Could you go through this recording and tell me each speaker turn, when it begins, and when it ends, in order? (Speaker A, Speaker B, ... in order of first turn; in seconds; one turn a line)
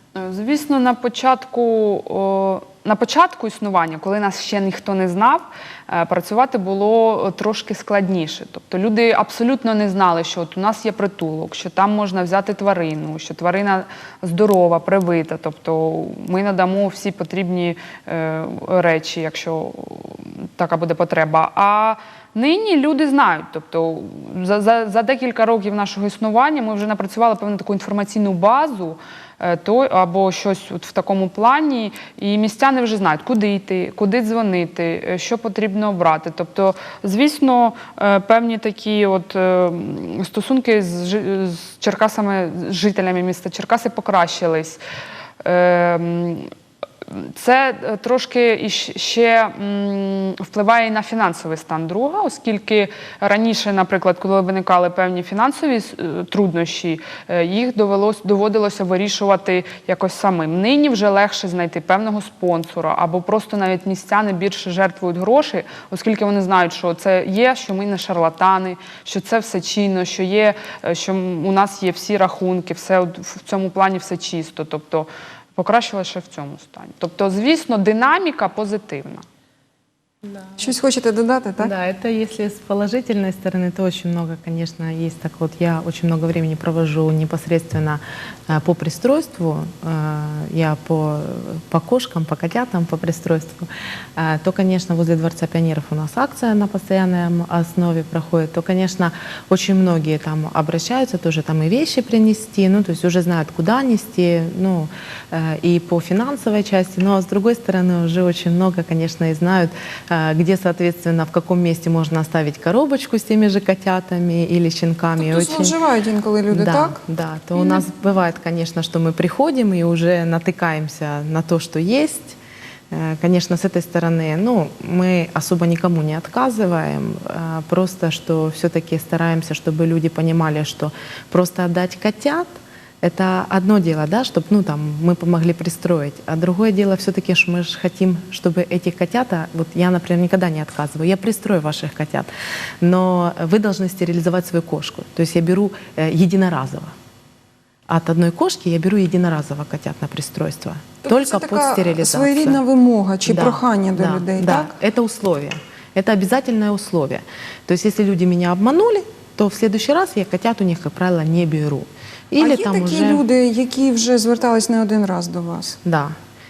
Speaker A: 0.1-44.8
Speaker A: 45.4-46.5
Speaker A: 47.1-79.2
Speaker B: 80.6-81.7
Speaker C: 81.6-115.7
Speaker B: 115.2-117.0
Speaker C: 116.5-122.4
Speaker B: 117.5-117.9
Speaker C: 122.9-142.3
Speaker C: 142.8-146.9
Speaker C: 147.9-152.6
Speaker B: 151.1-154.7
Speaker C: 153.2-163.2
Speaker B: 162.4-165.8
Speaker C: 165.8-166.2